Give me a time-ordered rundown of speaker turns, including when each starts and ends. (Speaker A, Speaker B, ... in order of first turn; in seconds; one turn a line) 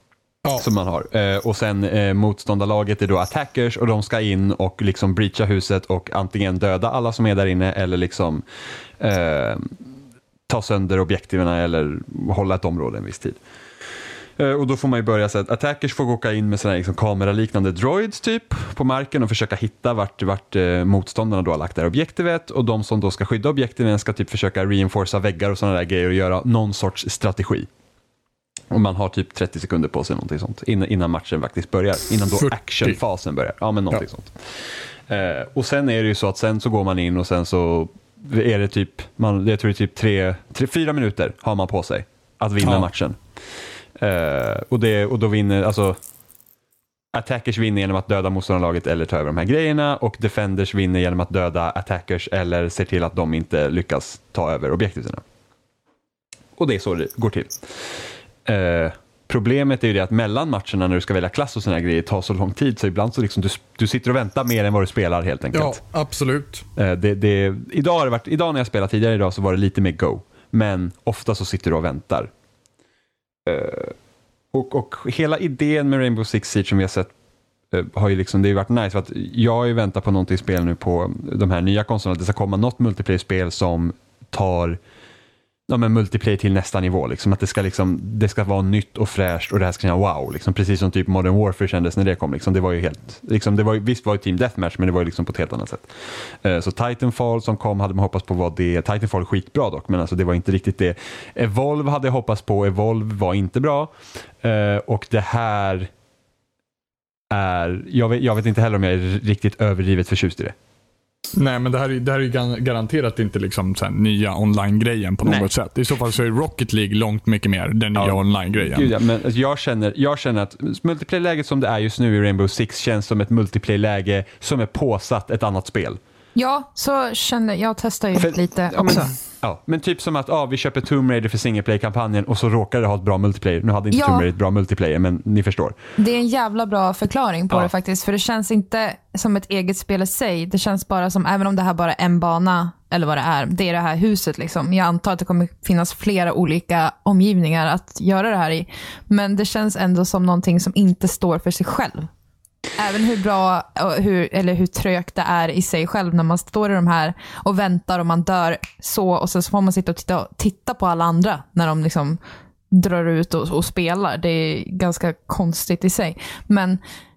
Speaker A: 0.6-8.4
Speaker A: 9.0-9.7
Speaker A: 10.5-13.4
Speaker A: 14.4-27.7
Speaker A: 28.7-34.4
Speaker B: 32.4-33.0
Speaker A: 35.1-43.2
Speaker B: 42.6-42.9
Speaker A: 44.0-46.0
Speaker A: 47.1-55.2
Speaker A: 56.6-57.6
Speaker A: 58.5-65.8
Speaker B: 65.5-66.7
Speaker A: 66.8-72.3
Speaker A: 73.5-74.0
Speaker A: 74.5-77.1
Speaker A: 77.7-84.8
Speaker A: 85.7-95.9
Speaker A: 96.4-105.9
Speaker A: 107.3-110.5
Speaker B: 111.4-118.9
Speaker A: 115.2-115.5
Speaker A: 118.0-126.0
Speaker C: 126.3-129.1
Speaker A: 128.2-135.8
Speaker C: 133.9-134.3
Speaker C: 136.0-152.1
Speaker C: 152.8-162.2
Speaker C: 162.7-166.8